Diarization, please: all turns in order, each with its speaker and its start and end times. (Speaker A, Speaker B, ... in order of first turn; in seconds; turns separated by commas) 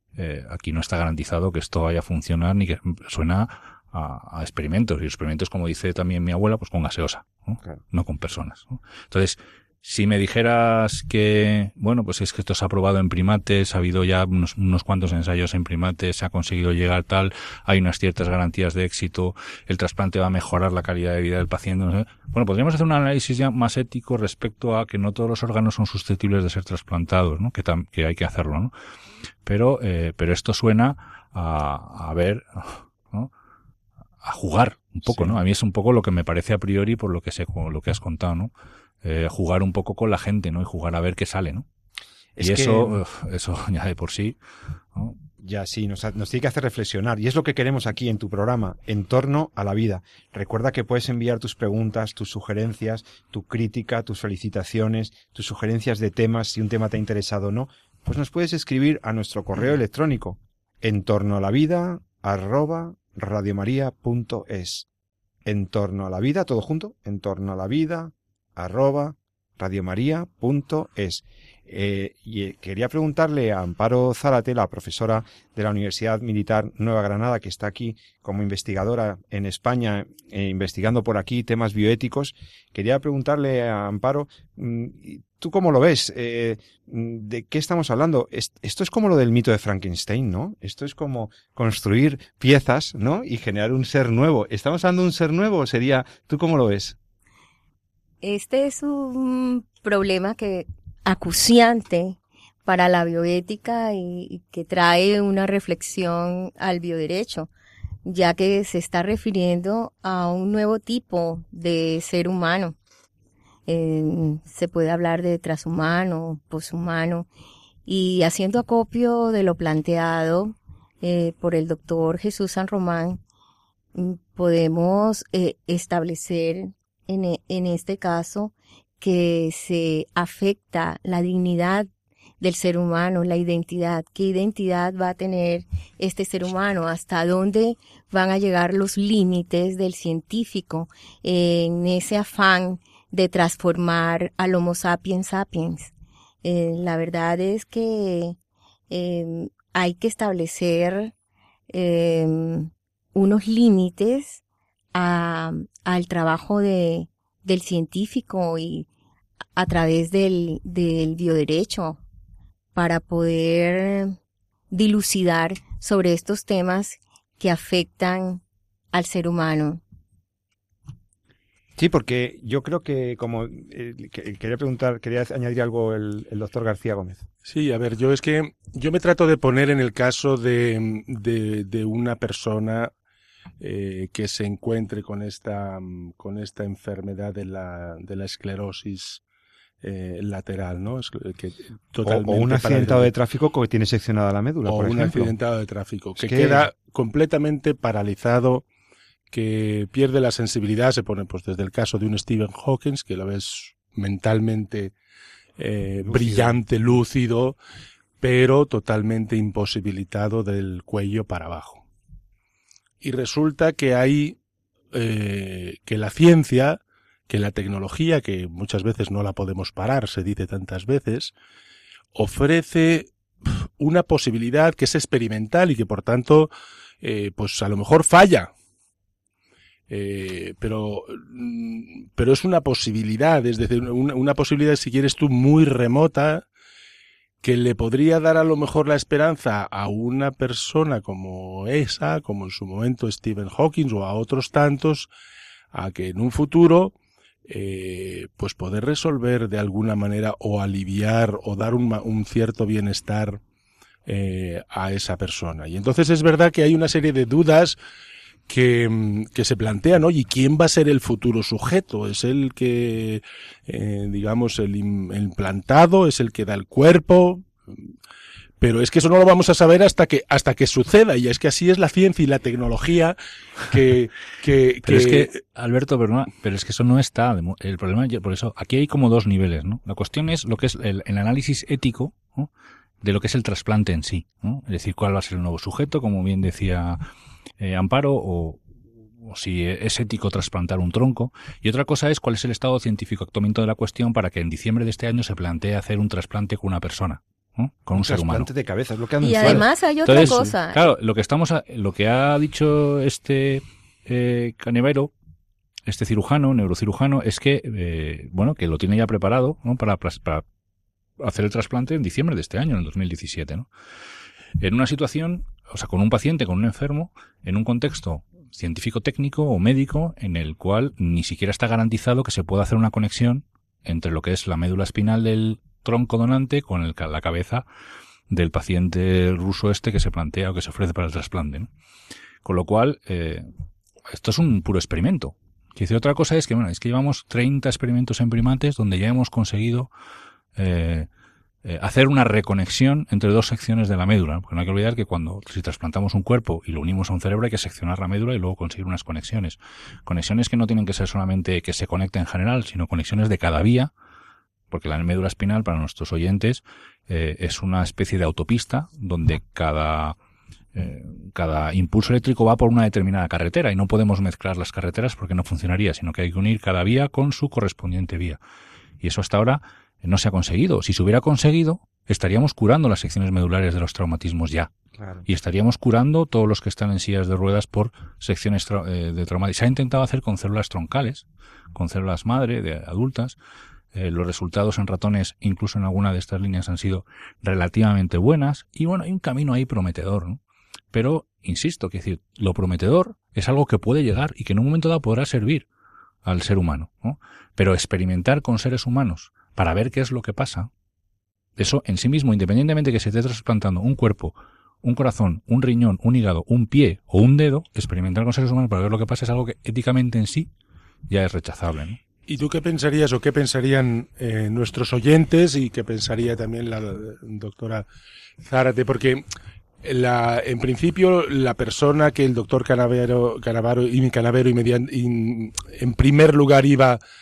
Speaker A: 0.1-28.7, Speaker A: 29.4-33.3, Speaker A: 34.2-38.5, Speaker B: 35.0-35.4, Speaker A: 39.0-41.7, Speaker B: 42.4-43.0, Speaker A: 42.4-44.4, Speaker B: 45.4-64.9, Speaker B: 65.4-97.0, Speaker C: 98.2-107.5, Speaker C: 108.0-112.8, Speaker C: 113.7-117.3, Speaker C: 117.9-123.2, Speaker C: 123.9-131.9, Speaker C: 132.4-145.9, Speaker C: 146.4-148.4, Speaker C: 148.9-151.1, Speaker C: 151.7-154.4, Speaker C: 154.9-158.9, Speaker C: 159.6-162.0, Speaker C: 162.7-164.2, Speaker C: 164.7-168.4, Speaker C: 168.9-169.8, Speaker B: 171.8-177.2, Speaker D: 177.4-182.9, Speaker D: 183.6-189.2, Speaker D: 189.8-193.1, Speaker B: 192.0-195.3, Speaker D: 194.7-198.6, Speaker B: 196.2-196.7, Speaker D: 199.3-204.9, Speaker D: 205.6-207.6, Speaker B: 206.0-206.6, Speaker D: 208.2-211.8, Speaker D: 213.0-214.4, Speaker D: 214.9-221.3, Speaker D: 222.1-226.5, Speaker D: 227.0-228.5, Speaker D: 229.9-236.5, Speaker D: 237.4-245.1, Speaker D: 245.7-246.9, Speaker D: 247.4-253.4, Speaker D: 254.1-257.8, Speaker D: 258.5-267.7, Speaker D: 268.6-273.1, Speaker D: 273.7-275.4, Speaker A: 274.8-282.5, Speaker A: 283.0-287.1, Speaker A: 287.6-288.6, Speaker A: 289.2-298.5, Speaker B: 297.9-300.5, Speaker C: 299.2-300.9, Speaker A: 299.4-305.1, Speaker A: 305.9-310.4, Speaker A: 311.2-313.7, Speaker A: 314.6-327.6, Speaker A: 328.3-331.7, Speaker A: 332.4-333.5, Speaker A: 334.1-339.9, Speaker A: 340.6-341.1, Speaker A: 341.6-353.9, Speaker A: 354.7-360.1, Speaker A: 360.7-368.4, Speaker A: 369.0-374.7, Speaker B: 375.0-375.2, Speaker A: 375.3-383.4, Speaker A: 383.9-390.4, Speaker A: 390.9-395.6, Speaker A: 396.2-400.7, Speaker A: 401.6-410.5, Speaker A: 411.1-412.0, Speaker D: 412.3-417.9, Speaker D: 418.4-419.2, Speaker D: 419.8-427.0